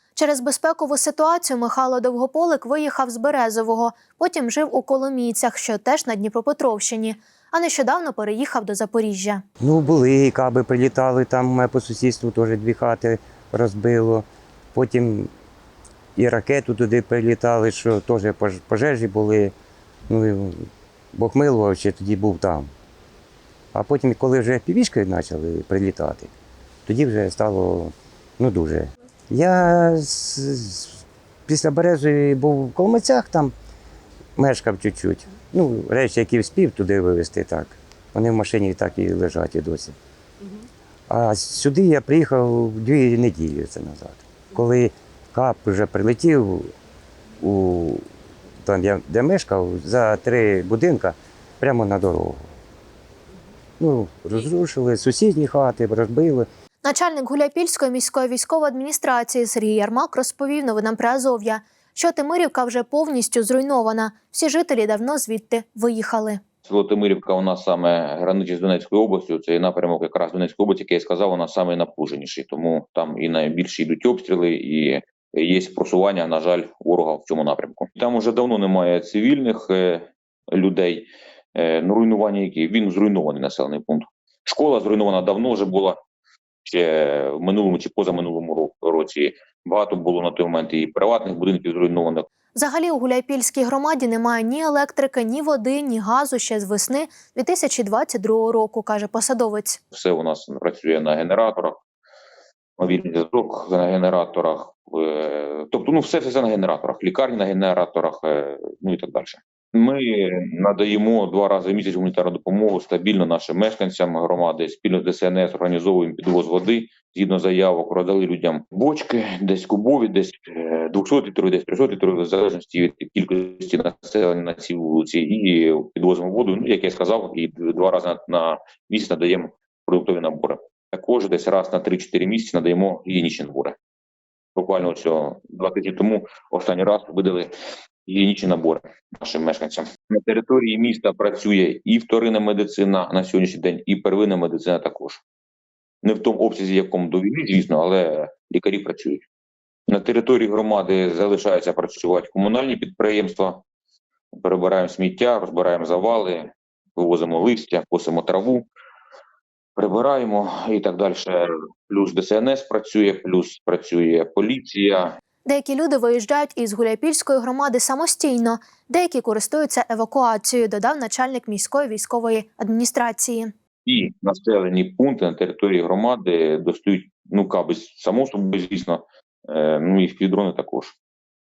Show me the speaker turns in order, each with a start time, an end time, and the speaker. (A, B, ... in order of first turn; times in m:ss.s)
0:00.2-0:09.4 A
0:09.6-0:15.3 B
0:16.2-0:19.5 B
0:20.1-0:22.7 B
0:23.7-0:26.3 B
0:26.8-0:33.5 B
0:34.4-0:40.0 B
0:41.1-0:46.7 B
0:47.4-0:48.0 B
0:48.6-0:52.4 B
0:53.8-0:56.5 B
0:56.8-1:06.4 A
1:06.6-1:26.0 C
1:26.6-1:32.2 C
1:32.5-1:39.8 A
1:39.9-1:41.8 C
1:42.8-2:13.8 C
2:14.6-2:17.5 C
2:18.0-2:25.2 C
2:26.0-2:29.2 C
2:29.9-2:33.6 C
2:34.4-2:38.6 C
2:39.8-2:45.2 C
2:45.4-2:53.5 A
2:53.8-3:01.0 C